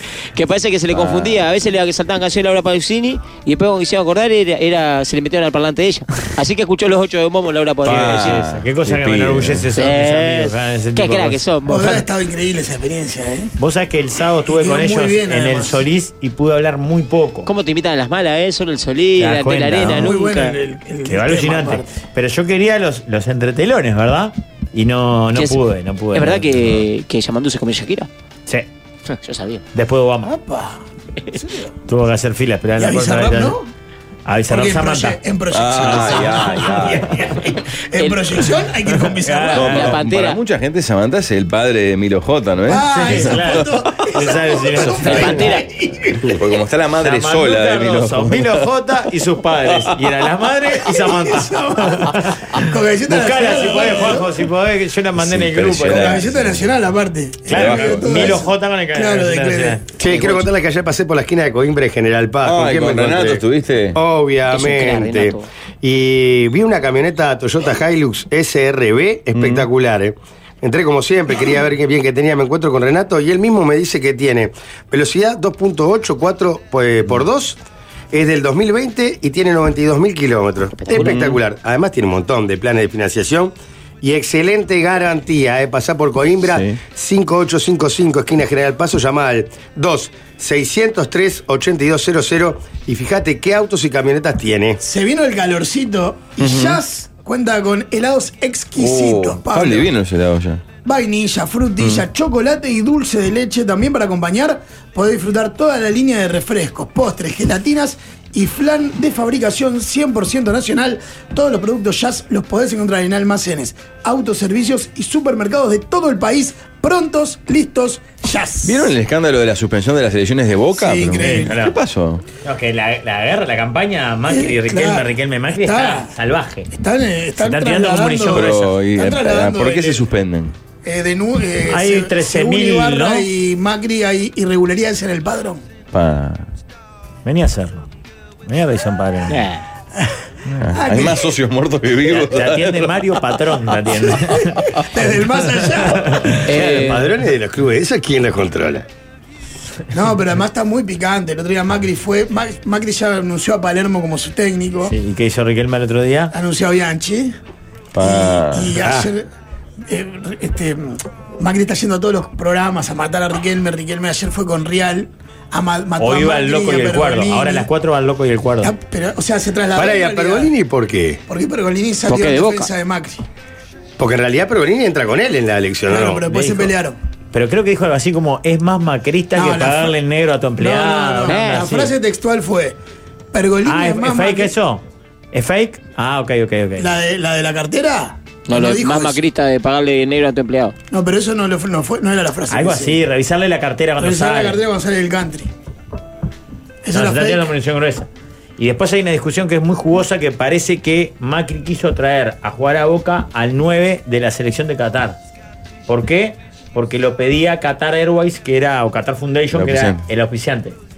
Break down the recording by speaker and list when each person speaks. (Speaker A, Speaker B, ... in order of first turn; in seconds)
Speaker A: 0.3-8.4, 9.8-12.1, 17.4-20.6, 26.1-28.1, 29.1-29.6, 38.0-38.4, 39.6-40.4, 45.0-45.6, 60.1-60.5, 64.5-65.5, 80.8-81.1, 139.3-139.6, 146.5-147.1, 172.1-172.7, 181.2-181.6, 188.5-190.7
Speaker B: 0.9-1.4, 7.8-9.7, 35.5-37.1, 39.5-43.8, 46.3-48.6, 55.2-56.6, 57.5-58.4, 62.4-64.0, 69.3-69.7, 80.9-81.4, 86.5-86.8, 96.4-96.8, 98.8-100.6, 118.6-122.2, 128.3-130.5, 135.9-136.4, 140.6-143.2, 157.9-158.8, 209.5-210.0
Speaker C: 7.9-11.4, 13.6-17.5, 19.2-20.1, 21.1-26.7, 29.7-30.3, 31.9-33.5, 34.2-35.2, 35.8-37.5, 38.9-39.9, 42.9-45.5, 47.0-56.3, 57.5-59.8, 121.2-121.7, 122.4-126.7, 127.4-128.8, 131.7-133.3, 137.2-137.9, 138.5-139.4, 142.1-144.8, 145.6-147.0, 154.8-156.3, 166.0-168.7, 176.2-176.7, 177.3-181.9, 183.6-186.9, 192.5-194.6, 196.9-205.2, 205.9-210.8
Speaker D: 11.7-13.5, 14.4-15.8, 19.8-21.9, 30.2-31.7, 32.8-33.7, 34.5-40.0, 42.7-46.4, 50.8-54.3, 55.9-59.8, 94.8-99.9, 100.8-118.9, 120.7-121.5, 124.3-126.1, 126.7-130.0, 130.8-135.7, 140.7-141.3, 144.8-146.4, 149.9-154.9, 156.3-157.3, 158.0-159.3, 159.8-167.7, 168.6-170.5, 171.3-173.2, 175.9-177.0, 179.3-180.0, 180.6-182.8, 183.3-184.5, 186.8-189.2, 190.9-193.0, 194.0-195.5, 196.8-197.5
Speaker E: 60.0-77.6, 78.1-94.8, 146.6-148.8, 169.7-171.2, 174.0-176.2